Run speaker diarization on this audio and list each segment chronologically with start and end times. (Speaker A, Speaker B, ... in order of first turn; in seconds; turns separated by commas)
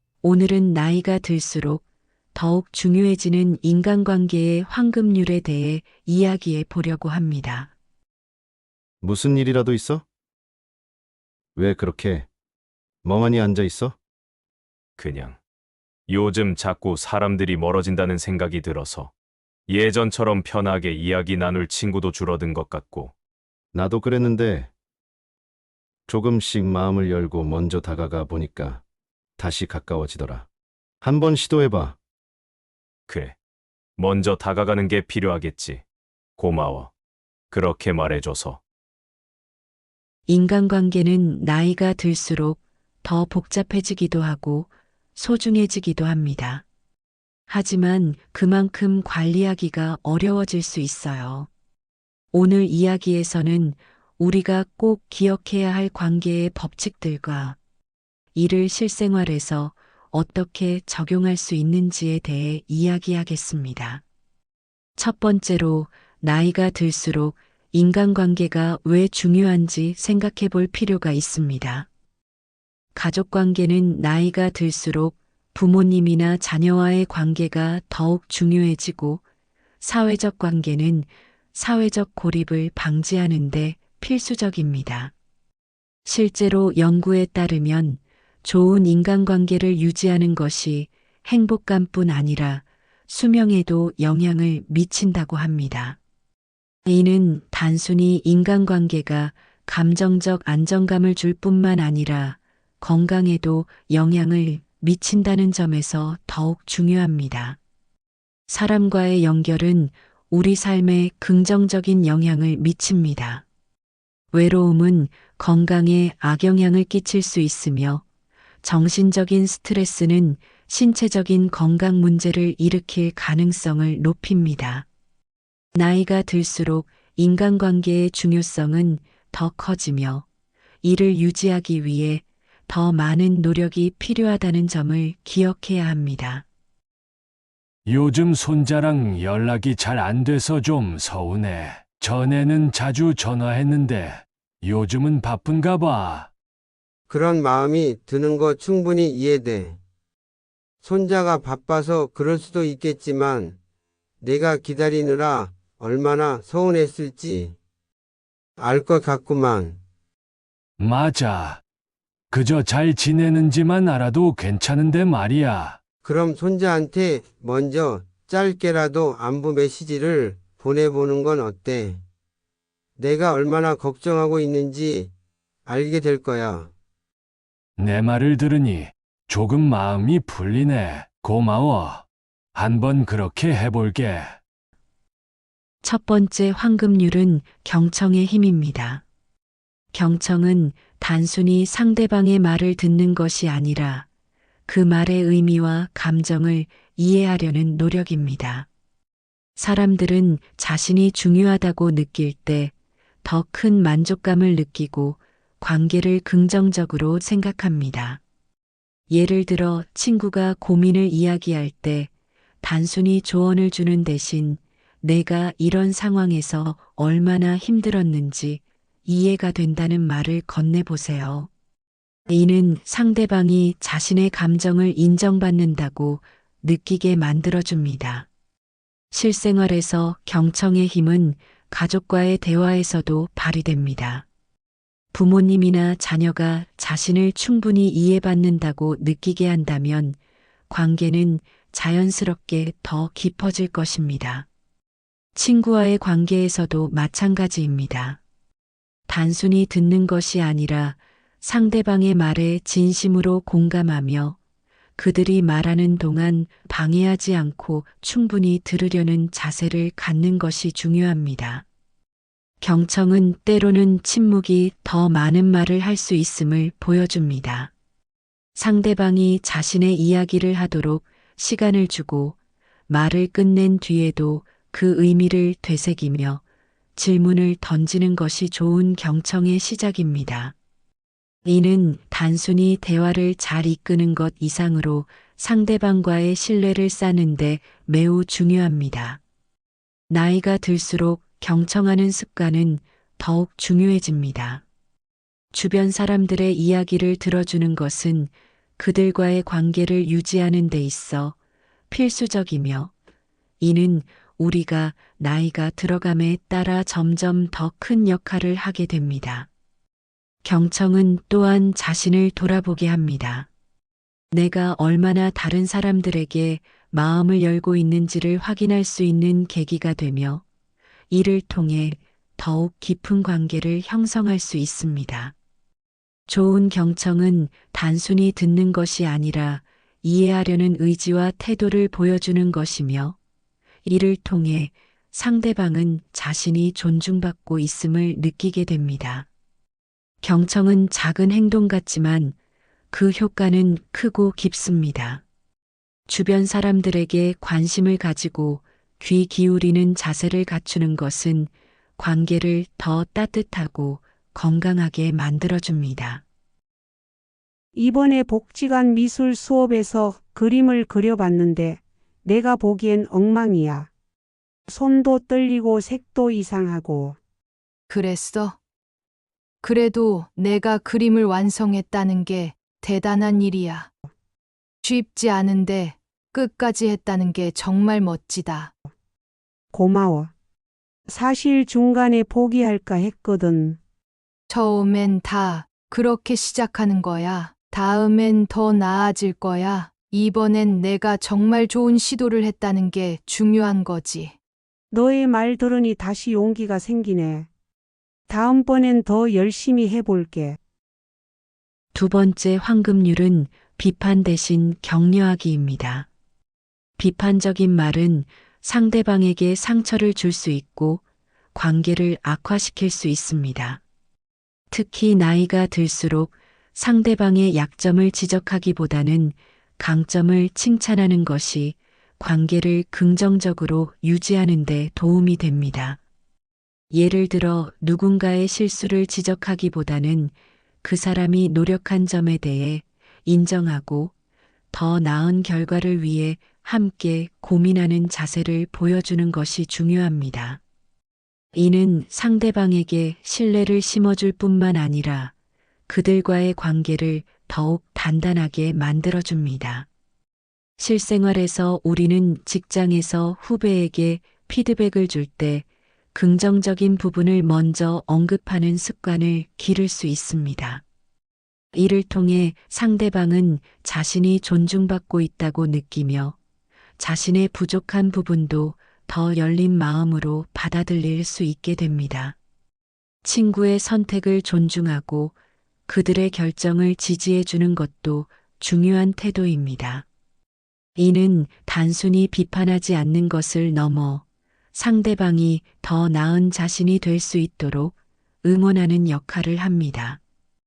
Speaker A: 0.2-1.8, Speaker A: 2.3-7.7, Speaker B: 9.0-10.0, Speaker B: 11.5-12.3, Speaker B: 13.0-14.0, Speaker C: 15.0-15.4, Speaker C: 16.1-19.1, Speaker C: 19.7-23.1, Speaker B: 23.7-24.7, Speaker B: 26.1-28.8, Speaker B: 29.4-30.5, Speaker B: 31.0-32.0, Speaker C: 33.1-33.4, Speaker C: 34.0-35.8, Speaker C: 36.4-36.9, Speaker C: 37.5-38.6, Speaker A: 40.3-46.6, Speaker A: 47.5-51.5, Speaker A: 52.3-57.6, Speaker A: 58.3-64.0, Speaker A: 65.0-71.9, Speaker A: 72.9-79.2, Speaker A: 79.8-85.1, Speaker A: 86.0-96.0, Speaker A: 96.8-107.6, Speaker A: 108.5-113.4, Speaker A: 114.3-118.0, Speaker A: 118.6-124.9, Speaker A: 125.7-130.2, Speaker A: 130.8-136.4, Speaker D: 137.9-146.3, Speaker E: 147.1-149.8, Speaker E: 150.8-153.6, Speaker E: 154.2-157.5, Speaker E: 158.6-159.8, Speaker D: 160.8-161.6, Speaker D: 162.3-165.8, Speaker E: 166.0-172.0, Speaker E: 173.0-175.1, Speaker E: 175.7-176.7, Speaker D: 177.8-184.3, Speaker A: 185.8-189.0, Speaker A: 189.9-194.1, Speaker A: 194.7-198.7, Speaker A: 199.6-202.7, Speaker A: 203.2-208.2, Speaker A: 209.1-212.1, Speaker A: 212.6-221.5, Speaker A: 222.3-228.3, Speaker A: 229.1-234.2, Speaker A: 235.1-240.2, Speaker A: 240.7-244.5, Speaker A: 245.3-248.2, Speaker A: 249.1-254.4, Speaker A: 255.0-261.6, Speaker A: 262.6-267.7, Speaker A: 268.6-272.4, Speaker A: 272.9-276.4, Speaker A: 276.9-280.5, Speaker A: 281.4-289.2, Speaker A: 290.1-294.6, Speaker A: 295.5-301.4, Speaker A: 301.9-302.9, Speaker A: 303.6-309.5, Speaker A: 310.4-313.5, Speaker A: 314.3-320.4, Speaker A: 321.1-325.3, Speaker A: 326.3-333.2, Speaker A: 333.8-339.3, Speaker A: 340.2-342.4, Speaker A: 342.9-345.2, Speaker A: 346.1-356.2, Speaker F: 357.7-363.9, Speaker F: 364.7-367.2, Speaker G: 367.9-368.6, Speaker G: 369.6-373.9, Speaker G: 374.8-378.7, Speaker F: 379.7-380.3, Speaker F: 381.1-383.8, Speaker G: 384.5-394.3, Speaker F: 394.9-397.5, Speaker F: 398.3-400.6, Speaker A: 401.9-406.1, Speaker A: 407.0-411.0, Speaker A: 411.5-413.8, Speaker A: 414.7-426.0, Speaker A: 426.9-434.1, Speaker A: 434.7-440.6, Speaker A: 441.5-445.3, Speaker A: 445.9-449.9, Speaker A: 450.8-460.8, Speaker A: 461.7-466.4, Speaker A: 467.0-472.4, Speaker A: 473.2-475.3, Speaker A: 475.9-480.1, Speaker A: 481.0-490.2